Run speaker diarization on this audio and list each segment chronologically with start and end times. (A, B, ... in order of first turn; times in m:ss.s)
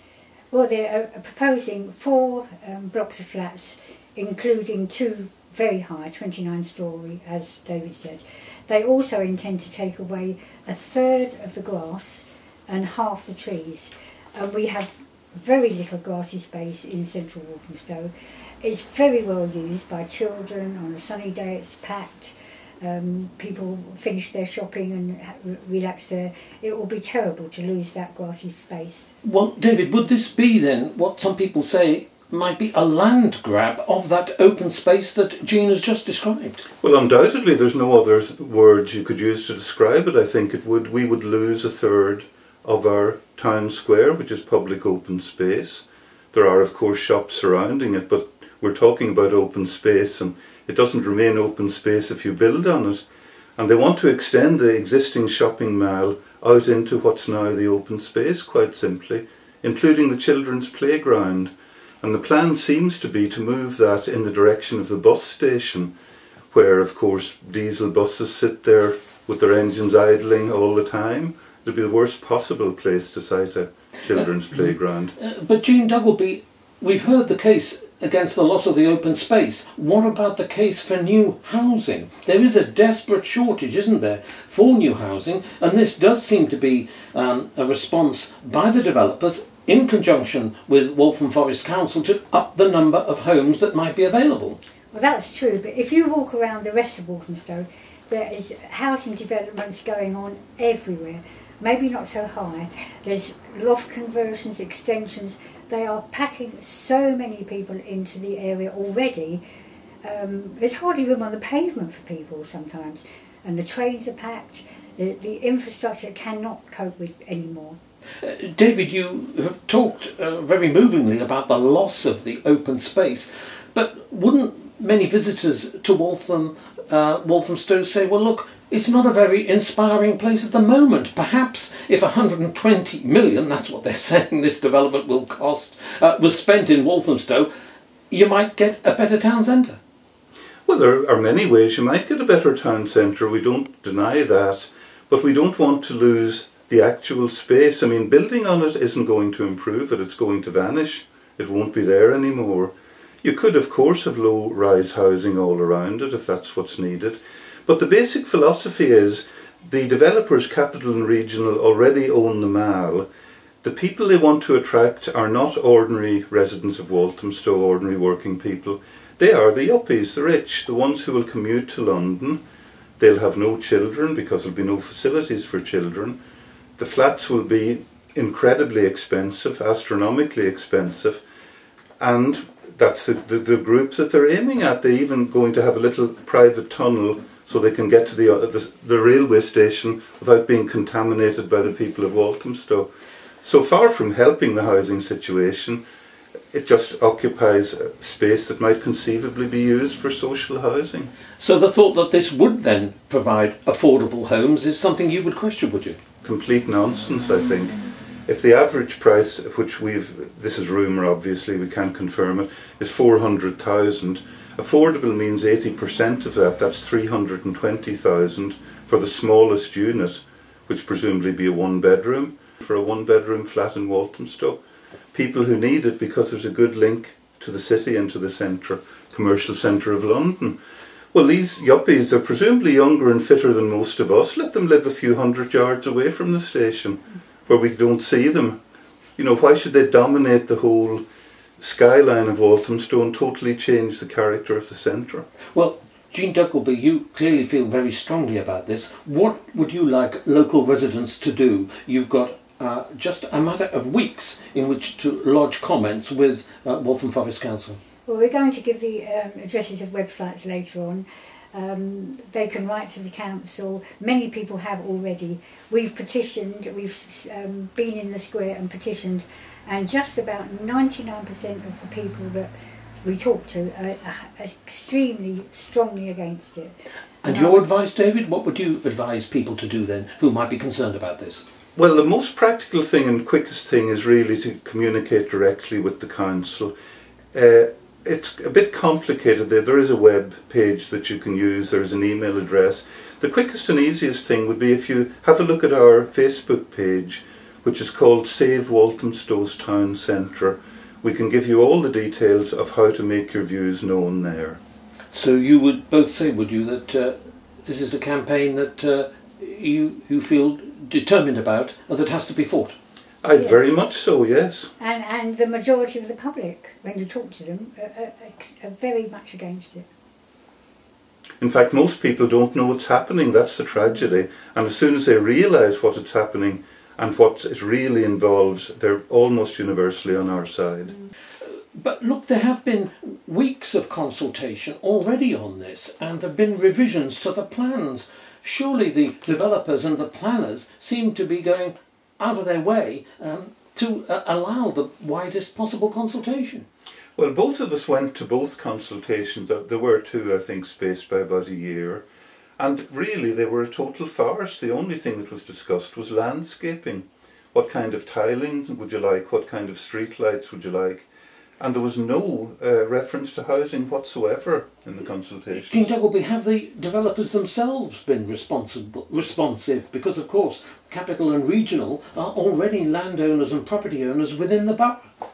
0:00.5-0:29.1 A
0:29.2-0:36.6 B
0:36.8-0:53.0 C
0:53.6-1:05.9 C
1:06.5-1:15.1 C
1:14.1-1:34.6 B
1:34.9-1:49.4 A
1:50.0-1:57.8 A
1:58.2-2:17.5 B
2:18.1-2:19.8 B
2:20.7-2:43.1 C
2:43.6-2:52.4 C
2:53.0-2:56.2 C
2:56.8-3:01.2 C
3:02.0-3:12.9 C
3:13.4-3:15.8 C
3:16.5-3:21.1 C
3:21.4-3:26.0 B
3:26.2-3:44.6 C
3:45.1-3:50.6 C
3:51.1-3:58.6 C
3:59.2-4:01.0 C
4:01.6-4:05.2 C
4:05.5-4:17.8 B
4:18.0-4:32.5 A
4:33.0-4:36.7 A
4:37.2-4:41.4 B
4:37.3-4:37.6 A
4:41.8-4:46.7 C
4:47.3-5:04.6 C
5:05.1-5:12.7 B
5:13.2-5:14.7 C
5:13.3-5:13.7 A
5:14.8-5:19.9 A
5:21.4-5:30.9 C
5:31.7-5:46.6 B
5:47.2-5:52.0 C
5:52.6-6:01.1 C
6:01.6-6:05.9 C
6:05.5-6:15.1 B